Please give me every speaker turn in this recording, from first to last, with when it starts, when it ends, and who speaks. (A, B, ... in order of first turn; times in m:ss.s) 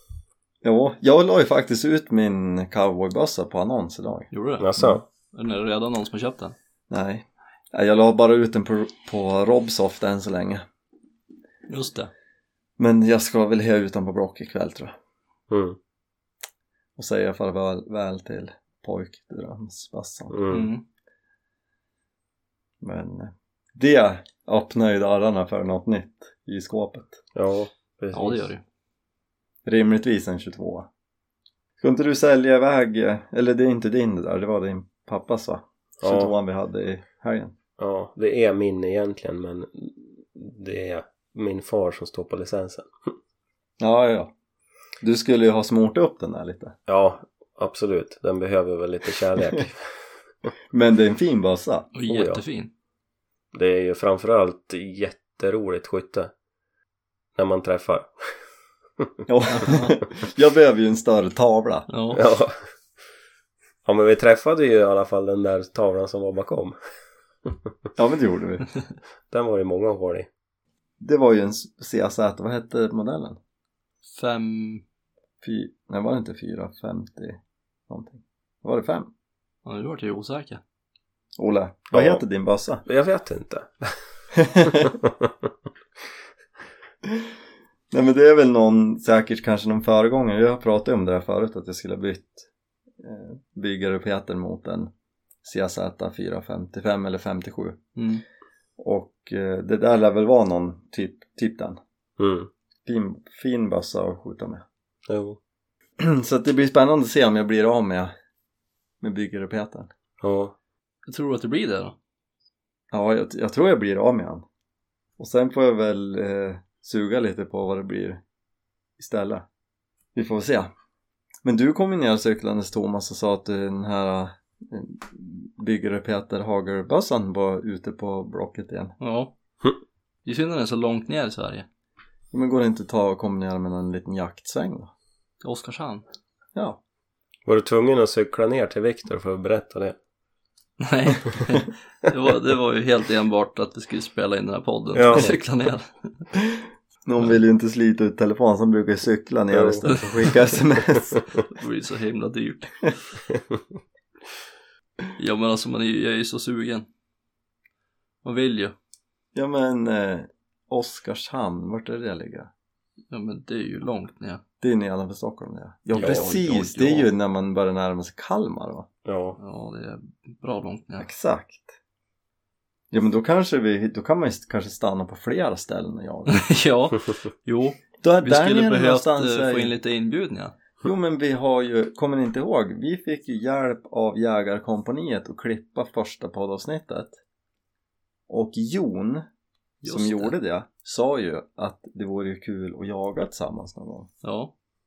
0:00.6-0:05.0 A
0:04.3-0:04.7 B
0:04.6-0:05.0 C
0:05.3-0:06.5 B
0:06.9-0:10.6 A
0:11.7-0:12.1 B
0:12.8-0:14.9 A
0:15.5-0:15.8 C
0:17.0-0:20.4 A
0:20.3-0:20.7 C
0:20.5-0:20.8 B
0:22.8-0:27.2 A
0:27.4-0:28.5 C
0:28.1-0:28.6 B
0:29.6-0:30.9 A
0:31.8-0:37.5 A
0:36.0-0:36.3 C
0:37.8-0:42.9 C
0:43.8-0:44.3 A
0:45.0-0:46.7 A
0:46.9-0:49.9 C
0:50.7-0:51.9 A
0:51.9-0:52.7 B
0:52.1-0:52.4 C
0:53.5-0:56.3 C
0:57.4-0:58.4 C
0:59.3-1:01.9 A
0:59.5-0:59.9 B
1:01.9-1:02.2 B
1:02.1-1:02.6 C
1:03.8-1:06.8 C
1:08.0-1:08.6 A
1:09.3-1:10.3 C
1:11.0-1:13.4 A
1:14.1-1:14.8 B
1:15.4-1:19.1 A
1:19.6-1:20.6 B
1:21.4-1:22.8 A
1:21.9-1:22.2 C
1:22.8-1:24.0 C
1:24.4-1:25.0 A
1:24.6-1:25.5 C
1:27.9-1:32.5 A
1:33.0-1:34.9 A
1:35.4-1:37.9 A
1:38.0-1:38.2 B
1:38.8-1:41.8 A
1:42.2-1:42.5 C
1:42.9-1:44.6 A
1:45.1-1:45.4 C
1:46.0-1:48.1 A
1:49.0-1:49.9 A
1:50.2-1:50.5 C
1:51.1-1:52.0 B
1:52.9-1:54.4 A
1:55.2-1:58.2 A
1:59.0-1:59.4 A
2:00.1-2:00.7 A
2:01.4-2:08.9 A
2:09.0-2:09.3 B
2:10.2-2:11.7 B
2:12.3-2:14.9 A
2:15.4-2:16.0 B
2:17.4-2:20.0 C
2:20.8-2:25.9 B
2:24.9-2:25.4 C
2:26.5-2:31.4 A
2:29.5-2:29.9 C
2:31.5-2:33.0 B
2:33.3-2:33.6 C
2:35.2-2:36.9 B
2:38.2-2:38.7 B
2:39.4-2:42.5 A
2:43.1-2:44.4 B
2:44.6-2:48.9 A
2:46.0-2:46.3 C
2:46.0-2:47.1 B
2:49.0-2:49.4 C
2:49.4-2:51.1 B
2:51.0-2:51.7 A
2:52.9-2:56.4 A
2:56.3-3:00.5 B
2:58.0-2:59.7 A
3:00.8-3:07.2 A
3:08.3-3:09.2 A
3:09.8-3:10.3 B
3:09.8-3:14.1 A
3:14.2-3:14.5 B